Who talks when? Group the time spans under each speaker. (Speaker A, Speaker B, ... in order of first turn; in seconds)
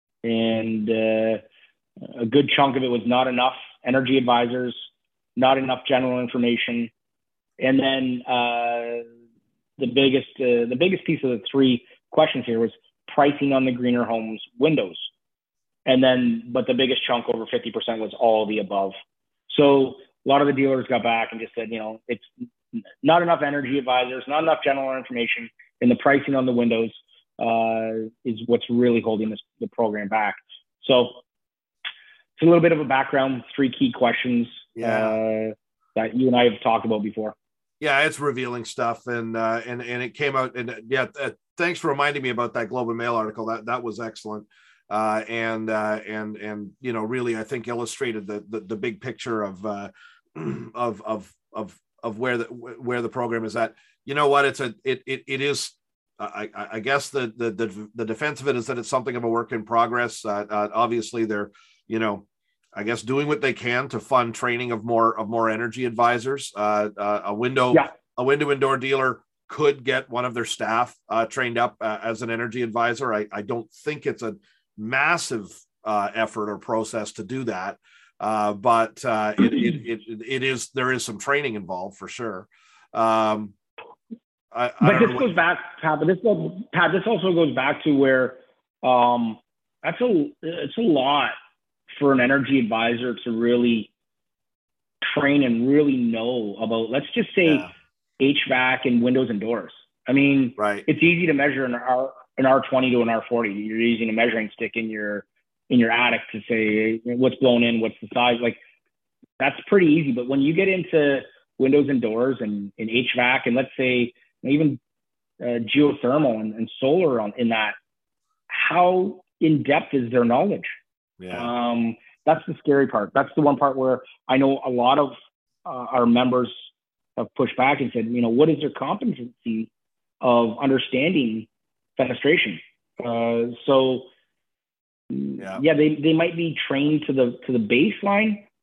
Speaker A: 0.2-1.4, 2.1-4.8, 5.3-6.9, 7.6-9.0, 9.8-15.0, 15.8-18.9, 19.5-22.3, 23.0-31.2, 32.4-37.3, 84.8-91.3, 91.9-93.9, 95.0-97.7, 98.2-108.6, 109.4-114.8, 115.4-117.8, 118.5-120.7, 121.3-125.1, 125.6-129.7, 130.2-131.5, 132.0-134.1, 135.1-138.4
Speaker B: 34.8-35.1, 37.8-83.5, 84.5-85.3, 100.6-100.8, 121.2-121.5